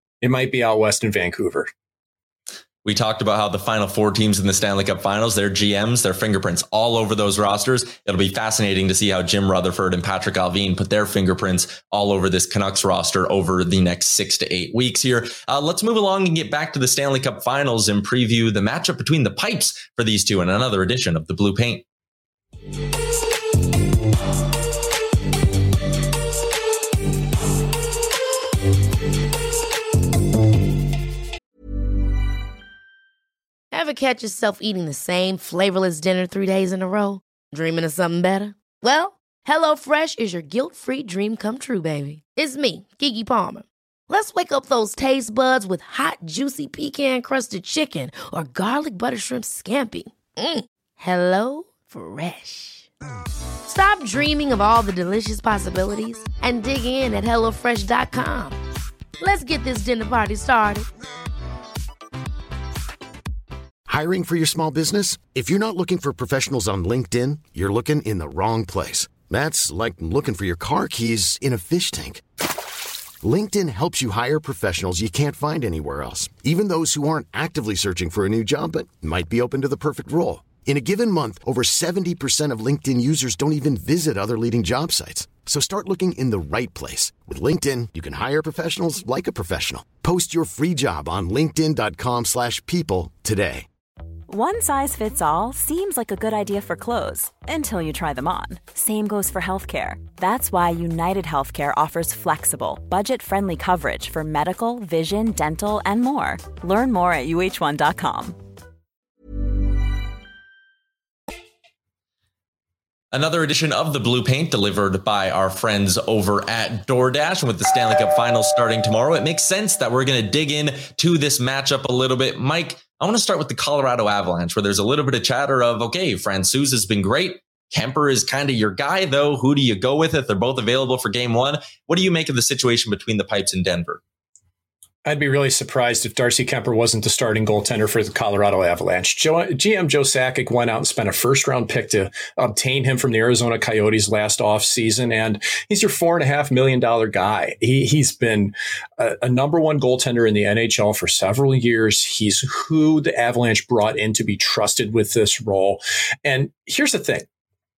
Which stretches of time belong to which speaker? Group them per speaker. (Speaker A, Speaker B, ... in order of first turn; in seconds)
Speaker A: 0.2-1.7, 135.1-157.3
Speaker B: 2.8-21.8, 113.1-134.0
Speaker C: 33.7-52.9, 53.7-58.6, 59.2-60.9
Speaker D: 63.9-72.2, 73.2-93.7
Speaker E: 94.3-108.4